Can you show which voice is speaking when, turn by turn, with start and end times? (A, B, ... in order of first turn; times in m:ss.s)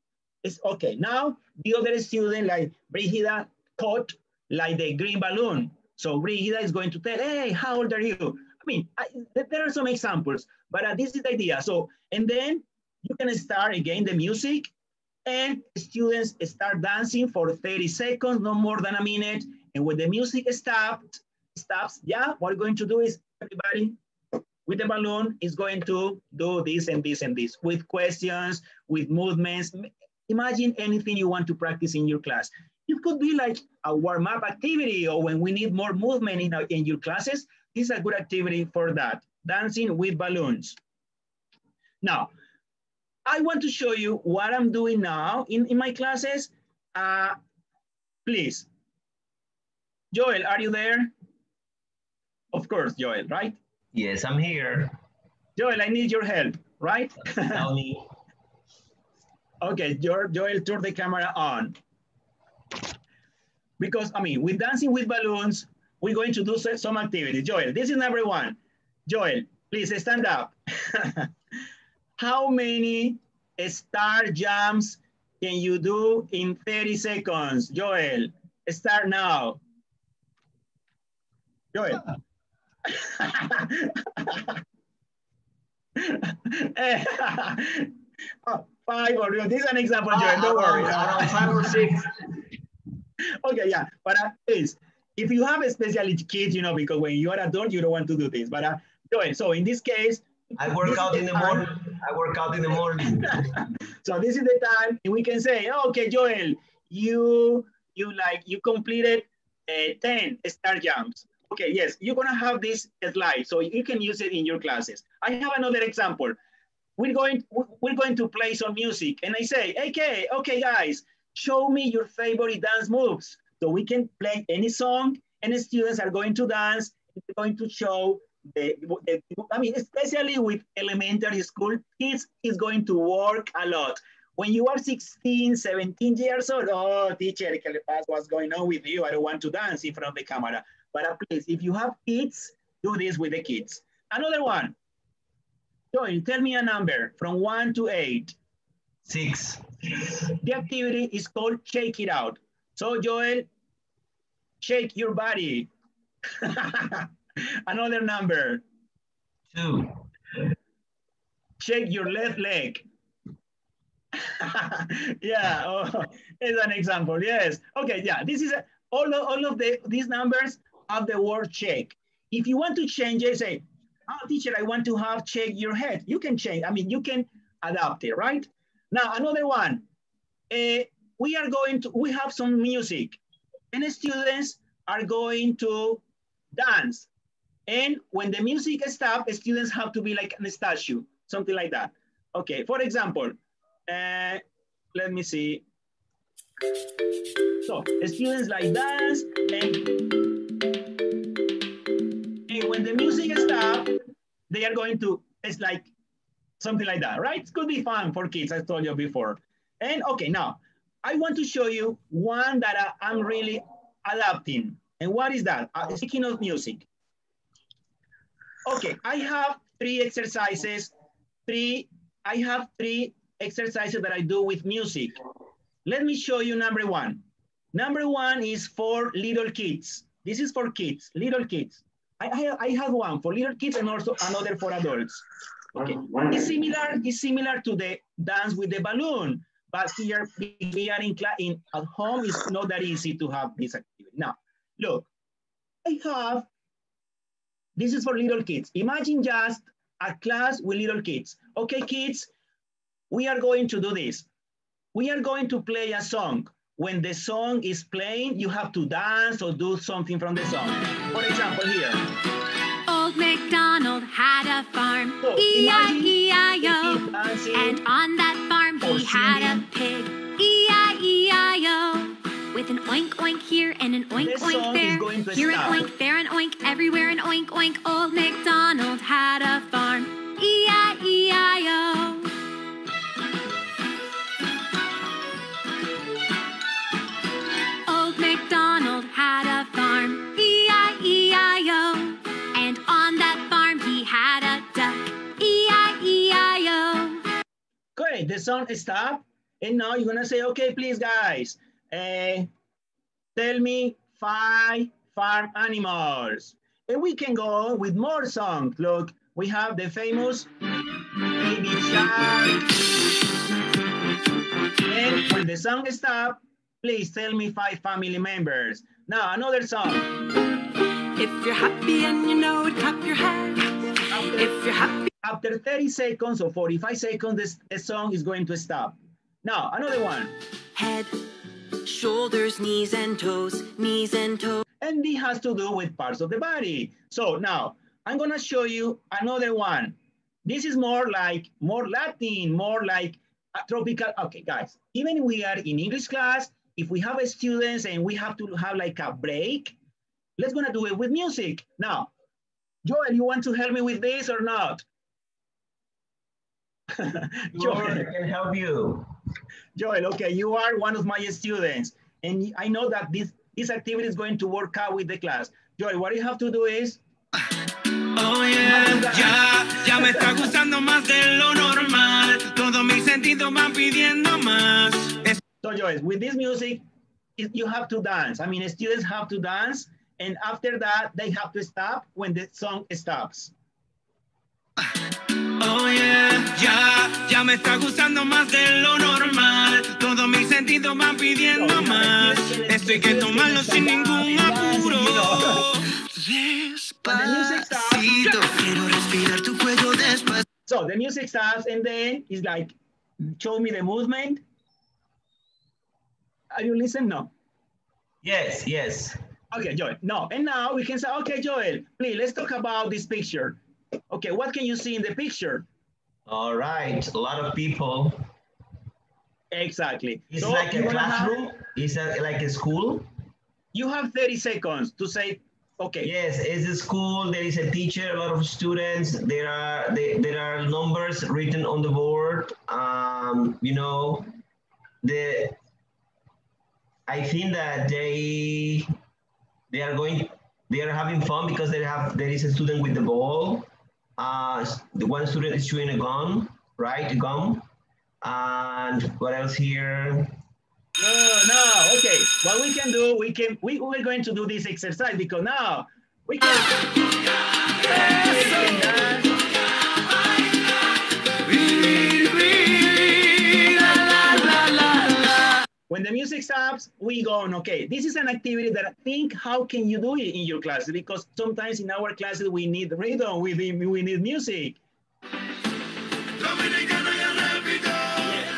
0:00.4-0:14.7 A
0:15.2-0:24.0 A
0:24.7-0:40.8 A
0:42.0-0:42.3 A
0:43.3-0:47.4 A
0:48.3-0:48.7 A
0:50.1-0:51.1 A
0:52.5-0:53.6 A
0:53.9-0:55.0 B
0:55.6-0:57.6 A
0:57.5-0:58.1 B
0:59.6-1:01.8 A
1:03.8-1:11.3 A
1:12.2-1:19.6 A
1:21.7-1:22.0 A
1:22.9-1:24.6 A
1:26.0-1:27.9 A
1:28.5-1:32.1 A
1:30.1-1:32.1 B
1:33.4-1:40.3 A
1:40.6-1:43.5 B
1:40.8-1:41.7 A
1:43.2-1:56.4 A
1:57.0-2:24.8 A
2:25.9-2:28.4 A
2:29.1-2:30.2 B
2:30.4-2:33.5 A
2:34.6-2:35.7 A
2:36.4-2:37.1 A
2:37.7-2:38.6 A
2:39.5-2:40.0 B
2:41.6-2:42.8 A
2:44.2-2:59.8 A
3:00.5-3:03.2 A
3:03.7-3:06.0 A
3:06.5-3:07.1 A
3:07.7-3:14.4 A
3:14.9-3:15.6 A
3:17.7-3:19.9 A
3:22.5-3:23.9 A
3:24.5-3:25.9 A
3:26.6-3:36.8 A
3:38.6-3:40.9 A
3:41.5-3:45.2 A
3:45.8-3:47.2 A
3:47.7-3:55.2 A
3:55.8-4:05.1 A
4:05.8-4:06.5 A
4:07.8-4:12.3 A
4:13.1-4:14.3 A
4:14.9-4:22.0 A
4:22.9-4:42.3 C
4:25.2-4:27.8 A
4:28.8-4:29.7 A
4:34.2-4:35.9 A
4:47.9-4:57.2 C
4:58.0-5:02.5 A
5:03.4-5:10.5 A
5:11.4-5:12.6 A
5:14.9-5:20.1 A
5:21.2-5:23.7 D
5:24.1-5:24.6 A
5:24.4-5:25.1 D
5:25.2-5:30.4 A
5:30.8-5:31.2 D
5:31.9-5:34.6 D
5:34.8-5:49.8 A
5:50.4-5:52.1 A
5:52.8-5:54.8 A
5:57.0-5:58.1 A
5:57.6-5:59.1 B
5:59.8-6:07.0 A
6:08.2-6:15.4 E
6:08.6-6:09.4 A
6:10.0-6:10.5 A
6:15.6-6:16.8 A
6:17.4-6:23.5 A
6:25.6-6:40.4 E
6:31.5-6:35.7 A
6:37.0-6:38.3 A
6:40.7-6:44.4 A
6:46.5-6:47.3 A
6:48.2-6:49.2 B
6:49.5-6:53.6 A
6:54.1-6:55.7 A
6:56.3-6:58.3 B
6:59.5-7:01.4 A
7:00.3-7:03.1 B
7:03.7-7:06.1 A
7:06.0-7:14.3 B
7:15.0-7:15.6 B
7:17.1-7:18.9 B
7:19.7-7:27.6 B
7:28.2-7:30.3 B
7:31.0-7:36.7 A
7:37.9-7:39.0 E
7:37.9-7:39.3 A
7:41.5-7:45.6 E
7:45.9-7:54.8 A
7:56.4-7:58.2 E